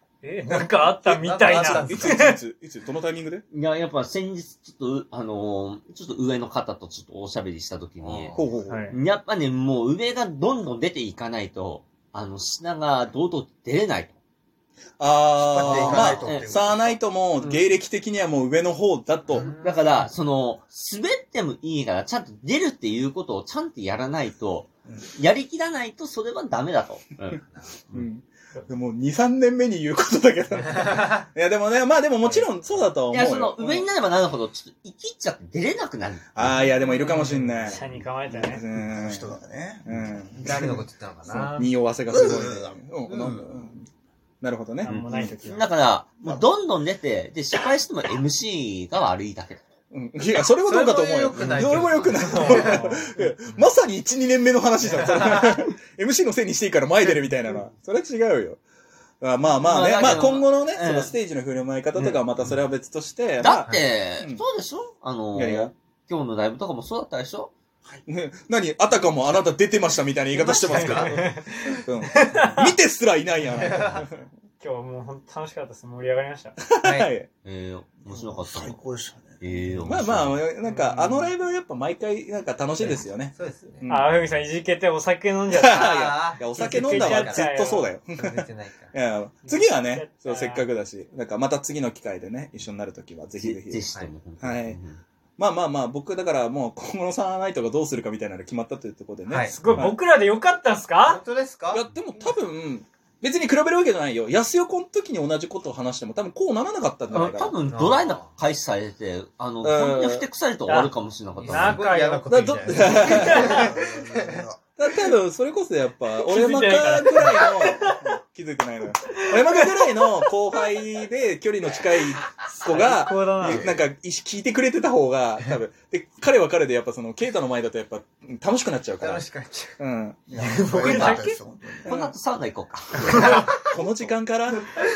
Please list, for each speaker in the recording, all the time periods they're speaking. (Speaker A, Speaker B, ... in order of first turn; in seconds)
Speaker A: 0.2-2.4, 8.7-9.0, 37.6-38.6, 44.8-45.7, 52.5-53.3, 70.5-72.7, 74.6-76.6, 80.6-81.3, 83.9-87.9, 89.5-90.7, 99.4-101.2, 110.7-113.6, 116.2-118.0, 119.3-119.7, 122.6-123.7, 130.4-131.4
Speaker B: 1.1-2.3, 8.0-8.5, 19.3-20.1, 27.4-27.9, 30.8-31.2, 36.9-37.8, 40.3-43.6, 50.6-53.1, 54.9-55.6, 62.0-62.2, 73.5-74.0, 76.8-77.1, 82.8-83.9, 85.7-87.5, 88.2-88.9, 99.3-99.5, 101.0-102.3, 107.6-108.3, 111.3-114.4, 129.0-129.8, 133.2-133.7
Speaker C: 1.3-3.5, 8.3-8.9, 15.0-19.5, 27.9-33.9, 36.4-43.9, 44.4-45.4, 49.9-58.6, 59.2-64.4, 65.3-65.7, 67.9-71.3, 71.8-74.2, 76.6-77.3, 79.8-84.2, 85.5-93.8, 94.4-94.8, 95.4-100.0, 101.7-107.5, 109.6-110.3, 112.3-113.7, 114.8-129.2, 129.8-130.3, 131.8-132.1, 133.5-134.7
Speaker D: 3.5-14.2, 15.6-16.5, 19.4-27.4, 33.0-36.6, 44.9-49.6, 51.4-52.5, 59.5-61.1, 63.4-67.5, 70.4-71.2, 77.4-78.8, 79.4-80.4, 93.3-95.0, 107.1-111.9, 130.9-131.2, 131.8-133.5
Speaker E: 15.4-17.0, 38.7-40.3, 42.1-42.7, 46.2-46.5, 78.1-79.4, 113.5-114.6, 130.3-131.9